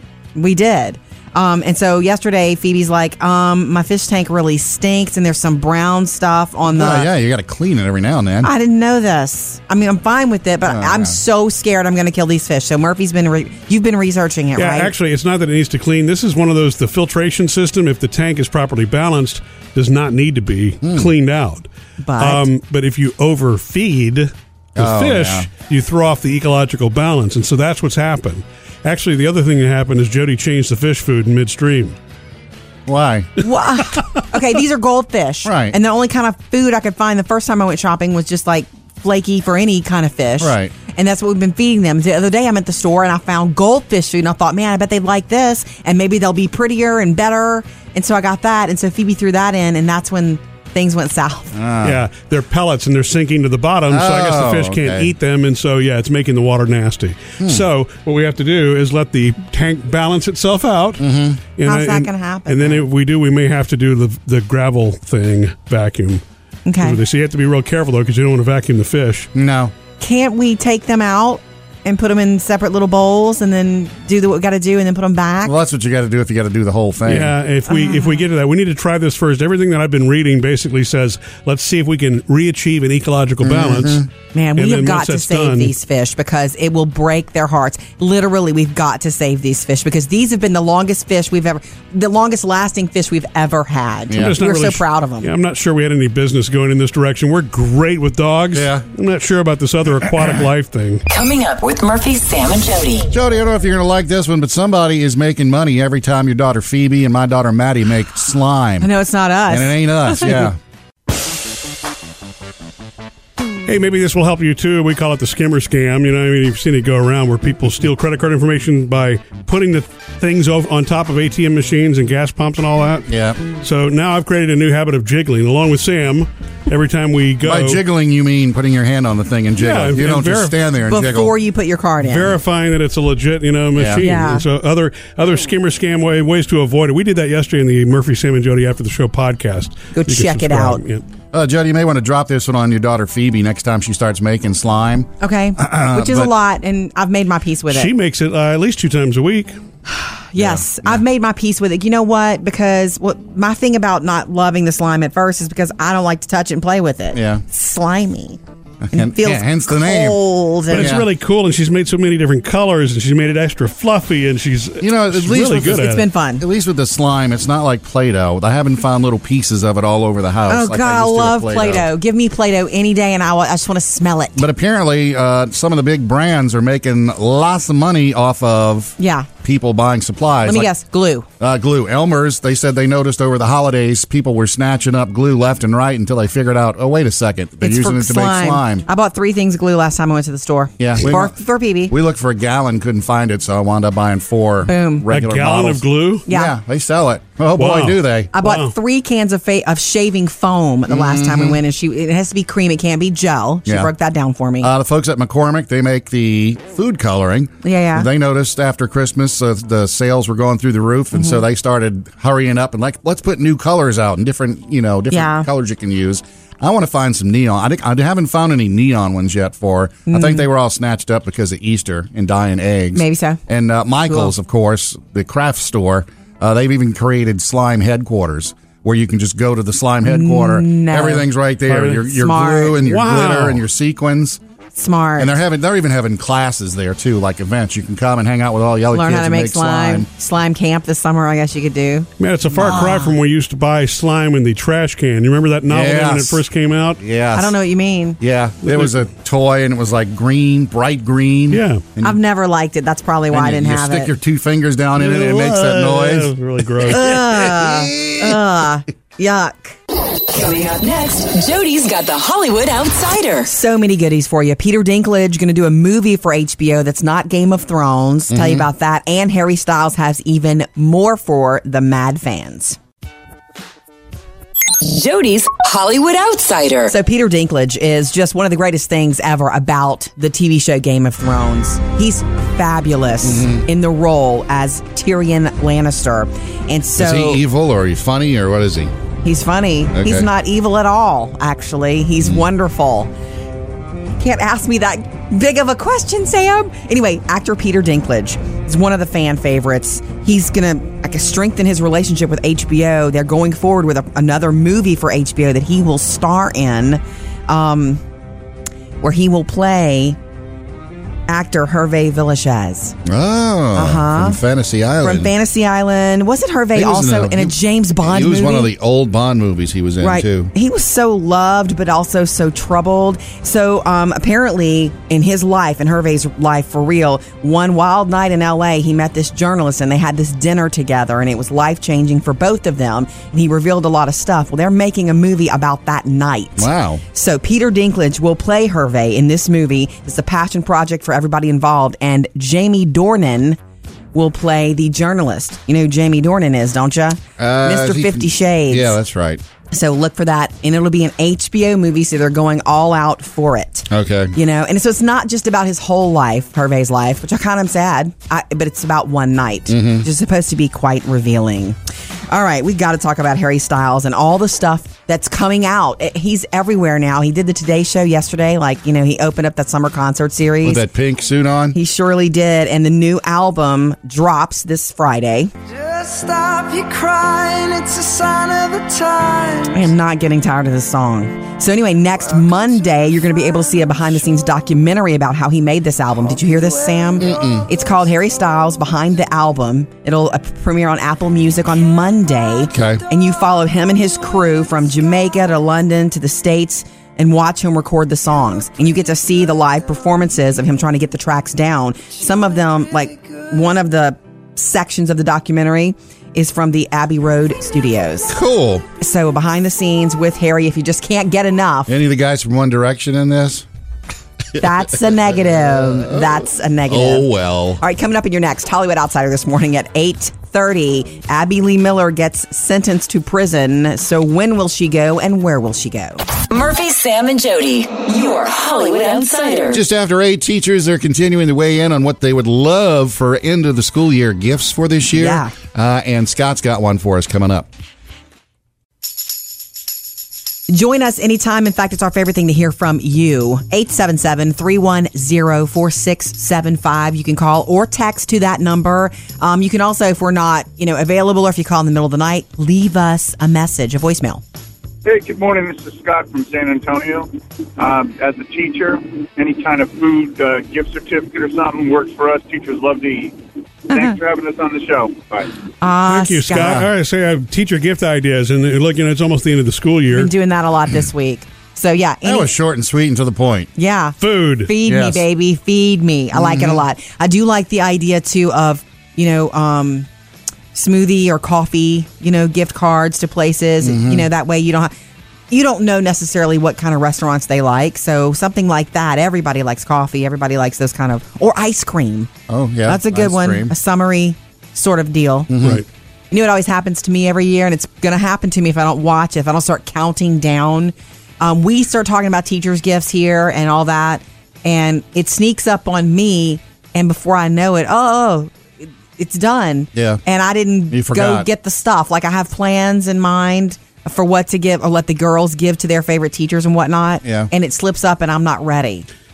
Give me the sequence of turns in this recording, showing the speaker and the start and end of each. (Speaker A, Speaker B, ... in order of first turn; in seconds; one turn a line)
Speaker A: 0.3-7.1
Speaker B: 6.7-8.5
Speaker A: 8.4-14.9
Speaker B: 10.7-11.2
Speaker C: 14.6-21.7
Speaker B: 20.8-21.1
Speaker A: 22.0-22.5
Speaker C: 22.2-32.0
Speaker B: 24.8-25.5
Speaker B: 32.9-33.4
Speaker A: 33.4-51.6
Speaker B: 35.5-35.8
Speaker B: 40.4-40.7
Speaker B: 51.5-52.0
Speaker C: 51.8-61.0
Speaker B: 53.9-55.1
Speaker B: 61.0-61.4
Speaker C: 61.6-66.2
Speaker A: 61.6-62.9
Speaker A: 66.7-67.0
Speaker C: 66.8-69.3
Speaker B: 69.3-69.7
Speaker A: 70.0-75.5
Speaker B: 75.4-77.3
Speaker C: 77.1-84.0
Speaker A: 77.7-78.2
Speaker B: 83.4-84.1
Speaker A: 84.3-95.3
Speaker C: 84.6-85.7
Speaker B: 94.1-94.4
Speaker C: 94.1-101.0
Speaker B: 98.5-98.8
Speaker D: 101.1-103.1
Speaker B: 103.1-108.9
Speaker A: 108.8-110.5
Speaker B: 109.5-110.6
Speaker C: 113.7-123.1
Speaker B: 123.1-123.4
Speaker C: 123.6-127.8
Speaker B: 127.4-131.3
Speaker C: 129.6-130.6
Speaker A: 130.9-132.4
Speaker C: 132.0-141.0
Speaker B: 133.8-134.1
Speaker A: 133.9-134.5
Speaker A: 139.9-140.8
Speaker B: 141.3-146.3
Speaker A: 145.2-147.9
Speaker C: 147.7-149.6
Speaker A: 149.9-158.4
Speaker B: 150.4-151.0
Speaker B: 157.1-157.4
Speaker B: 158.8-161.1
Speaker A: 158.9-161.0
Speaker C: 160.7-166.1
Speaker B: 164.8-171.9
Speaker A: 165.6-166.4
Speaker A: 170.5-174.5
Speaker B: 174.4-180.7
Speaker A: 179.0-179.3
Speaker A: 180.4-181.3
Speaker B: 181.4-188.9
Speaker A: 187.6-191.9
Speaker B: 190.8-191.3
Speaker B: 191.9-198.3
Speaker A: 194.7-195.1
Speaker C: 195.1-196.3
Speaker A: 196.3-196.5
Speaker C: 197.6-198.7
Speaker A: 198.3-204.7
Speaker B: 200.9-201.6
Speaker B: 203.7-203.9
Speaker B: 204.6-234.4
Speaker A: 207.6-208.1
Speaker A: 211.2-211.4
Speaker A: 215.1-215.5
Speaker A: 220.1-220.4
Speaker A: 222.9-223.4
Speaker A: 230.1-231.3
Speaker C: 231.7-231.9
Speaker A: 231.8-232.8
Speaker C: 232.8-233.6
Speaker A: 234.8-235.3
Speaker B: 235.2-240.1
Speaker A: 238.9-243.2
Speaker C: 242.2-247.0
Speaker B: 245.7-246.4
Speaker B: 247.0-247.6
Speaker A: 247.3-248.2
Speaker B: 248.2-252.2
Speaker C: 248.6-249.0
Speaker C: 251.5-251.8
Speaker A: 252.0-254.1
Speaker B: 253.3-256.3
Speaker C: 255.0-257.2
Speaker A: 256.9-259.8
Speaker B: 257.0-258.4
Speaker D: 260.3-263.5
Speaker A: 263.5-272.8
Speaker B: 268.3-268.7
Speaker D: 274.8-276.9
Speaker A: 276.9-287.4
Speaker B: 283.2-283.6
Speaker B: 287.0-288.9
Speaker A: 289.2-293.1
Speaker B: 289.9-290.3
Speaker A: 294.2-308.0
Speaker A: 309.0-310.2
Speaker A: 311.3-313.0
Speaker B: 313.1-315.3
Speaker A: 313.7-314.4
Speaker A: 315.0-318.7
Speaker B: 316.7-320.5
Speaker A: 320.0-343.6
Speaker B: 336.6-337.0
Speaker A: 344.1-348.9
Speaker B: 347.4-349.4
Speaker A: 349.7-361.8
Speaker B: 353.9-354.4
Speaker B: 359.7-360.1
Speaker A: 362.3-370.8
Speaker B: 370.6-371.8
Speaker A: 371.7-375.5
Speaker E: 375.8-379.7
Speaker A: 379.7-408.4
Speaker B: 387.2-387.7
Speaker B: 392.7-393.0
Speaker B: 408.3-408.9
Speaker A: 409.0-411.9
Speaker B: 411.9-413.7
Speaker B: 414.6-417.8
Speaker A: 414.6-417.3
Speaker A: 417.8-426.2
Speaker D: 426.5-429.8
Speaker B: 429.7-437.7
Speaker A: 435.1-435.5
Speaker A: 440.7-454.4
Speaker F: 455.0-463.4
Speaker F: 463.9-465.5
Speaker A: 463.9-464.2
Speaker A: 465.8-466.8
Speaker C: 466.1-470.3
Speaker B: 466.5-466.9
Speaker A: 470.1-472.5
Speaker B: 472.2-473.7
Speaker A: 473.8-480.1
Speaker C: 474.2-474.7
Speaker B: 474.8-475.2
Speaker B: 476.3-476.8
Speaker A: 480.7-484.9
Speaker B: 483.8-484.3
Speaker A: 485.5-492.3
Speaker B: 492.5-493.7
Speaker A: 492.9-495.5
Speaker B: 495.5-495.8
Speaker C: 495.6-495.9
Speaker A: 496.3-519.1
Speaker B: 509.9-510.2
Speaker B: 510.9-511.5
Speaker B: 517.2-517.5